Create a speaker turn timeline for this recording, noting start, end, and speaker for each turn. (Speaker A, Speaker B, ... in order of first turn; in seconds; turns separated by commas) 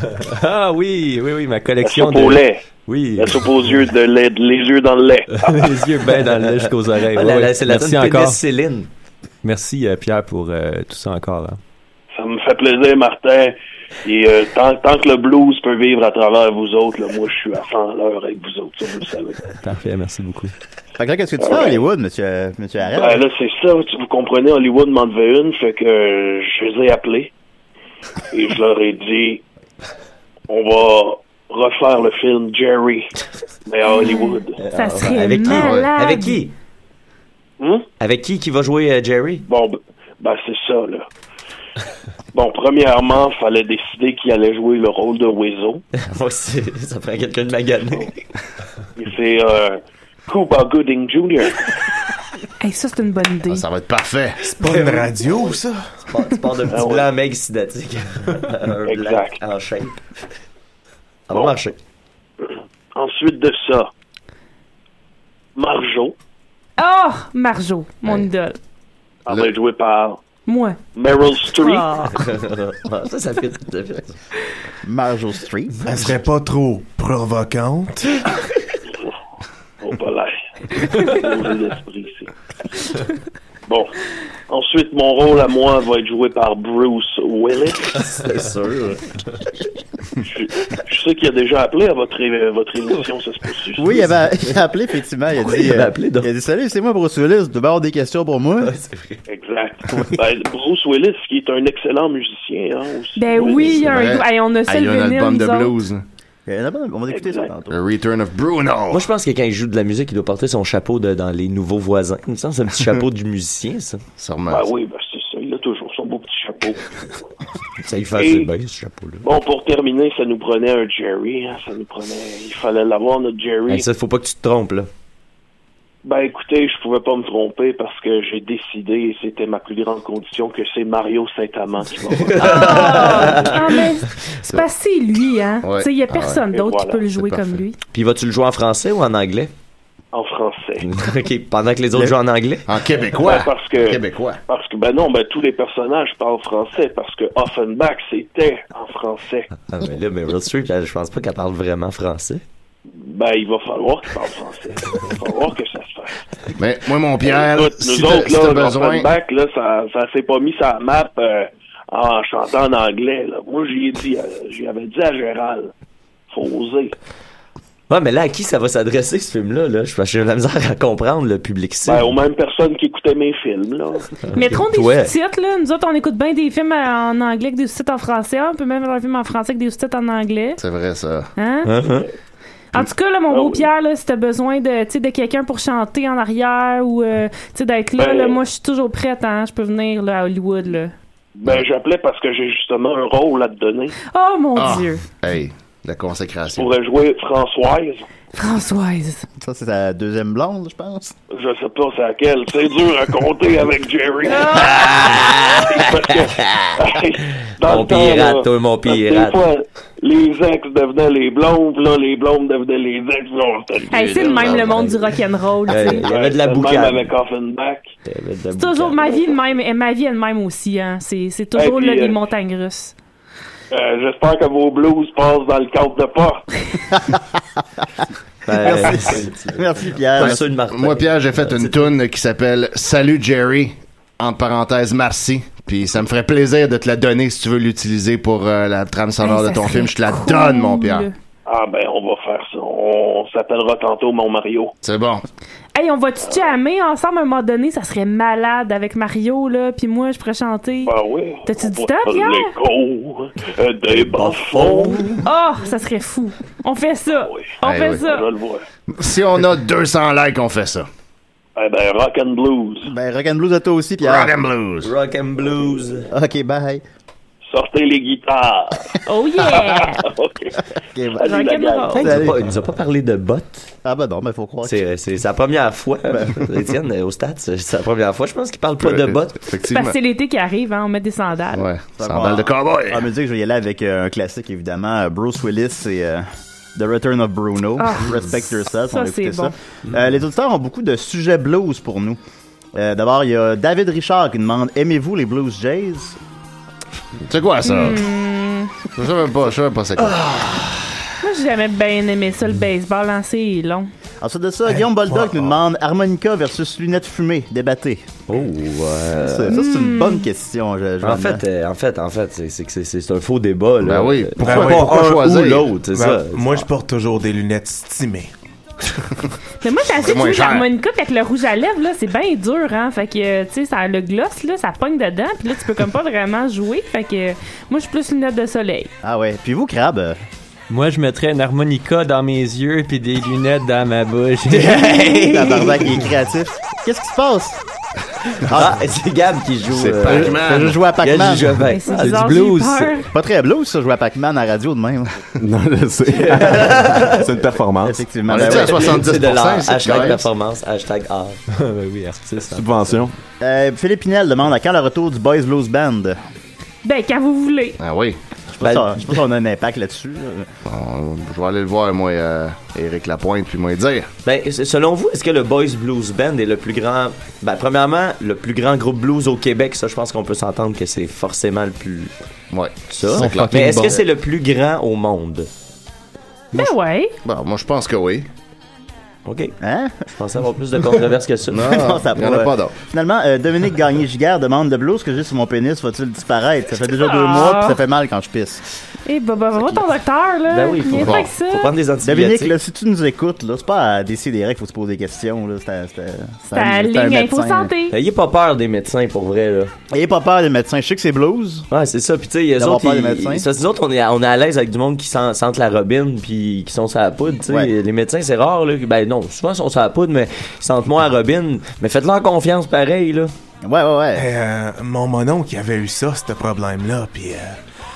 Speaker A: 0.2-3.4, Speaker B: 1.8-2.6, Speaker B: 3.2-5.5, Speaker A: 5.3-8.4, Speaker C: 7.1-8.9, Speaker A: 9.4-11.6, Speaker B: 12.1-19.4, Speaker A: 19.6-20.5, Speaker D: 21.0-23.2, Speaker B: 21.4-21.8, Speaker B: 22.9-27.3, Speaker B: 28.3-29.4, Speaker B: 30.5-33.1, Speaker B: 33.6-34.6, Speaker E: 33.8-36.4, Speaker C: 34.6-36.5, Speaker F: 35.5-35.9, Speaker B: 37.6-37.9, Speaker C: 38.0-39.4, Speaker B: 39.5-41.0, Speaker B: 42.3-45.8, Speaker C: 46.0-48.2, Speaker B: 49.0-51.5, Speaker E: 52.6-53.6, Speaker F: 53.5-54.4, Speaker G: 54.4-55.9, Speaker C: 54.5-60.0, Speaker B: 56.7-57.1, Speaker B: 58.9-59.4, Speaker C: 61.3-61.8, Speaker B: 61.3-61.6, Speaker B: 62.4-63.9, Speaker B: 65.5-66.1, Speaker E: 66.8-68.6, Speaker F: 69.3-69.5, Speaker B: 69.3-70.2, Speaker E: 70.5-70.8, Speaker B: 70.9-71.9, Speaker E: 71.5-72.2, Speaker C: 72.1-74.2, Speaker D: 74.8-75.8, Speaker G: 75.8-78.2, Speaker B: 79.8-82.3, Speaker B: 83.7-83.9, Speaker B: 84.5-88.0, Speaker C: 88.0-89.0, Speaker B: 90.3-94.0, Speaker D: 93.8-98.7, Speaker C: 95.3-96.3, Speaker C: 98.6-99.2, Speaker B: 99.3-103.8, Speaker E: 103.2-105.8, Speaker F: 103.7-106.0, Speaker D: 106.5-107.8, Speaker B: 107.1-107.5, Speaker F: 107.7-109.0, Speaker C: 108.9-114.0, Speaker F: 114.2-114.7, Speaker B: 114.5-116.8, Speaker C: 117.8-119.2, Speaker B: 118.1-118.5, Speaker B: 119.2-123.8, Speaker C: 123.7-124.9, Speaker B: 126.0-133.1, Speaker C: 132.2-133.9, Speaker E: 132.4-137.8, Speaker F: 135.6-136.4, Speaker B: 136.5-137.1, Speaker F: 137.2-137.6, Speaker C: 137.9-139.5, Speaker B: 140.1-140.9, Speaker C: 140.8-142.6, Speaker F: 142.7-144.4, Speaker B: 143.2-149.5, Speaker C: 149.7-152.4, Speaker B: 152.9-156.2, Speaker F: 156.6-159.1, Speaker B: 157.3-165.7, Speaker B: 166.3-166.9, Speaker C: 167.9-172.1, Speaker B: 171.8-174.1, Speaker C: 174.3-175.1, Speaker E: 174.3-180.6, Speaker F: 180.6-181.3, Speaker E: 181.4-181.7, Speaker C: 181.6-182.1, Speaker E: 182.7-190.9, Speaker B: 183.3-183.7, Speaker B: 188.0-188.4, Speaker B: 191.4-193.9, Speaker E: 194.0-195.0, Speaker F: 194.6-196.7, Speaker B: 196.6-198.1, Speaker E: 198.3-199.2, Speaker D: 199.4-201.1, Speaker B: 201.3-205.1, Speaker E: 204.2-205.4, Speaker C: 204.8-205.8, Speaker B: 205.7-214.6, Speaker C: 206.4-206.7, Speaker C: 207.6-209.4, Speaker E: 213.9-216.1, Speaker C: 214.1-215.2, Speaker C: 215.7-217.1, Speaker B: 215.9-217.9, Speaker C: 218.1-219.3, Speaker E: 218.6-222.9, Speaker B: 221.5-222.2, Speaker B: 223.7-226.4, Speaker C: 228.4-231.9, Speaker D: 228.6-230.4, Speaker F: 230.2-241.1, Speaker E: 239.2-241.1, Speaker B: 241.5-244.7, Speaker F: 244.8-245.2, Speaker E: 245.7-250.9, Speaker B: 250.8-255.1, Speaker E: 251.4-252.5, Speaker C: 253.9-255.2, Speaker E: 255.2-258.2, Speaker B: 257.2-258.6, Speaker F: 257.6-258.0, Speaker F: 258.9-260.9, Speaker B: 261.6-262.9, Speaker D: 262.9-264.3, Speaker F: 264.0-264.9, Speaker C: 264.8-266.1, Speaker D: 266.1-266.8, Speaker B: 267.5-268.9, Speaker E: 269.1-270.0, Speaker B: 269.6-270.6, Speaker D: 270.9-271.2, Speaker B: 271.2-271.9, Speaker E: 271.2-272.2, Speaker C: 271.9-273.7, Speaker D: 272.0-272.4, Speaker D: 273.8-274.8, Speaker C: 274.6-279.4, Speaker D: 276.1-276.5, Speaker F: 278.8-280.0, Speaker E: 279.7-281.7, Speaker F: 281.5-283.1, Speaker D: 282.0-292.2, Speaker E: 287.8-288.1, Speaker E: 288.8-289.5, Speaker D: 292.7-296.2, Speaker F: 297.3-298.1, Speaker E: 297.6-298.7, Speaker F: 298.9-300.9, Speaker E: 301.2-303.9, Speaker D: 304.2-308.0, Speaker G: 305.1-305.4, Speaker C: 308.3-309.6, Speaker D: 309.3-311.4, Speaker E: 309.5-310.3, Speaker C: 311.0-316.7, Speaker F: 313.8-315.7, Speaker G: 314.4-318.3, Speaker E: 319.6-328.9, Speaker F: 320.0-320.7, Speaker D: 329.0-330.2, Speaker A: 330.7-335.0, Speaker C: 334.5-335.8, Speaker D: 335.1-337.6, Speaker C: 338.4-342.9, Speaker F: 339.7-340.8, Speaker D: 340.1-341.6, Speaker E: 341.6-343.1, Speaker A: 342.0-342.8, Speaker D: 343.1-345.2, Speaker H: 345.4-348.0, Speaker C: 346.1-347.3, Speaker D: 347.8-349.0, Speaker F: 348.3-350.3, Speaker C: 348.3-351.4, Speaker A: 351.5-353.0, Speaker H: 352.5-353.1, Speaker D: 353.4-356.2, Speaker E: 356.8-357.8, Speaker F: 357.8-358.2, Speaker D: 358.6-360.5, Speaker C: 358.6-359.2, Speaker F: 360.6-364.1, Speaker C: 364.2-372.1, Speaker F: 372.5-373.9, Speaker C: 372.9-375.5, Speaker A: 373.2-374.0, Speaker E: 376.5-377.1, Speaker F: 377.2-378.2, Speaker C: 379.2-379.5, Speaker D: 379.6-380.0, Speaker C: 380.1-382.0, Speaker F: 381.5-382.8, Speaker D: 381.6-388.6, Speaker E: 386.9-387.8, Speaker E: 389.1-391.7, Speaker C: 390.5-392.6, Speaker F: 390.9-391.3, Speaker D: 392.0-397.7, Speaker E: 396.5-397.9, Speaker C: 397.9-399.7, Speaker D: 399.9-401.6, Speaker C: 401.7-413.3, Speaker D: 402.6-403.4, Speaker D: 413.6-414.3, Speaker G: 414.1-417.6